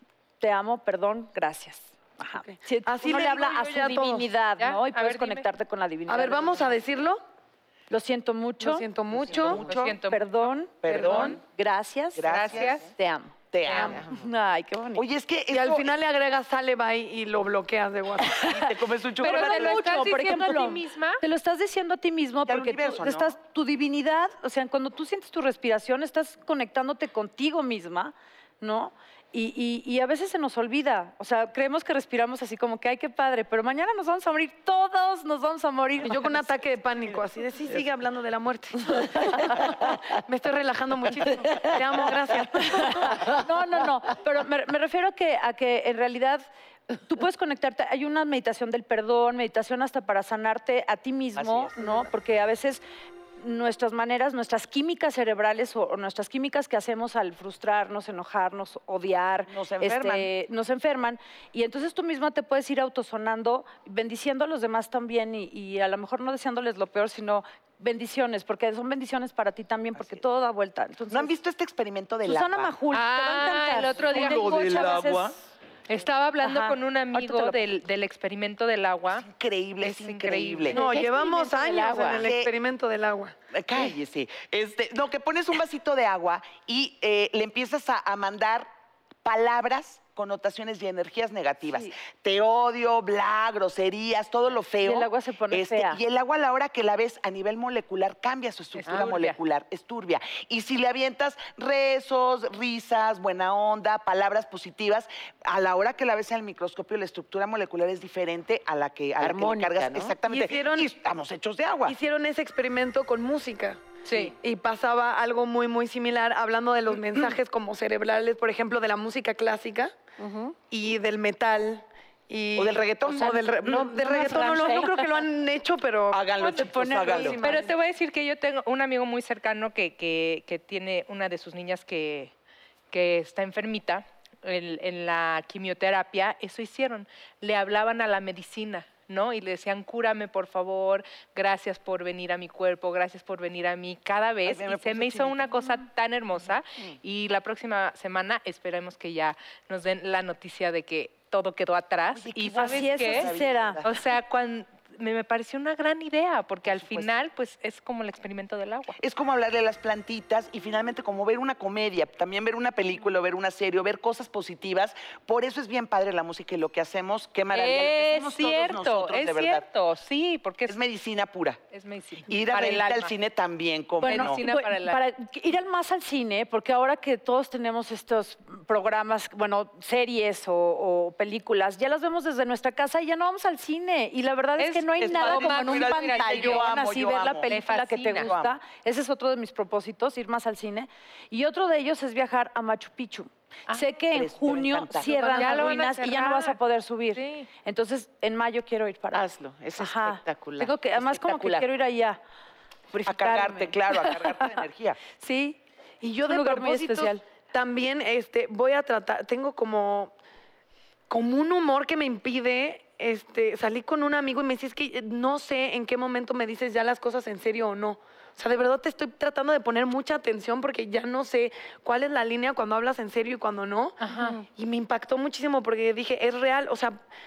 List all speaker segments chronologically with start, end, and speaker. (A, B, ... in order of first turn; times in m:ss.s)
0:00.4-0:06.7 A
0:02.4-0:04.3 B
0:04.6-0:05.4 C
0:06.1-0:07.2 B
0:07.9-0:08.8 A
0:08.6-0:09.6 B
0:09.1-0:10.0 D
0:09.6-0:10.3 C
0:10.1-0:12.3 A
0:10.8-0:11.4 D
0:10.8-0:11.4 B
0:12.1-0:12.9 D
0:12.2-0:12.9 C
0:13.0-0:13.3 A
0:13.5-0:14.0 D
0:13.6-0:14.0 C
0:13.8-0:14.2 E
0:14.1-0:15.0 A
0:14.9-0:15.9 D
0:15.5-0:18.5 B
0:18.3-0:18.7 A
0:18.4-0:19.9 D
0:19.2-0:36.6 A
0:19.2-0:21.2 C
0:22.4-0:23.4 D
0:36.0-0:43.3 B
0:42.9-0:46.4 A
0:47.0-0:52.8 A
0:51.4-0:52.0 D
0:53.4-1:11.3 A
0:59.5-1:00.3 D
1:10.0-1:10.2 D
1:11.1-1:12.7 D
1:12.2-1:15.3 A
1:12.9-1:15.0 C
1:14.0-1:15.4 D
1:15.9-1:19.3 C
1:16.4-1:17.6 A
1:19.2-1:20.8 D
1:19.8-1:20.8 C
1:20.7-1:23.3 B
1:20.7-1:22.3 E
1:22.2-1:22.5 D
1:23.5-1:28.7 D
1:29.2-1:52.0 D
1:34.8-1:36.0 A
1:38.8-1:39.4 C
1:38.8-1:39.2 E
1:49.2-1:50.1 E
1:50.2-1:50.9 B
1:51.8-2:00.0 B
1:54.0-1:54.3 C
2:00.2-2:00.6 E
2:00.7-2:07.7 B
2:02.6-2:03.9 D
2:03.6-2:04.9 E
2:04.0-2:05.0 A
2:06.1-2:07.4 D
2:06.4-2:12.3 C
2:12.9-2:33.3 C
2:24.4-2:25.6 D
2:32.1-2:33.9 D
2:32.5-2:33.8 A
2:33.8-2:39.0 C
2:36.6-2:37.1 D
2:39.0-2:49.6 D
2:47.5-2:50.8 C
2:50.7-2:51.6 D
2:51.7-2:53.1 C
2:52.3-2:54.4 D
2:54.0-3:19.2 A
2:54.0-2:55.0 C
3:04.6-3:06.7 C
3:05.0-3:07.5 D
3:07.5-3:08.3 C
3:08.2-3:08.5 D
3:14.1-3:15.1 D
3:15.0-3:16.0 B
3:15.3-3:16.6 C
3:17.1-3:17.5 C
3:19.1-3:21.7 E
3:19.8-3:22.2 A
3:22.9-3:24.4 A
3:23.0-3:25.0 D
3:25.2-3:25.6 A
3:26.0-3:30.1 B
3:26.2-3:27.2 A
3:31.1-3:47.0 B
3:44.0-3:44.4 C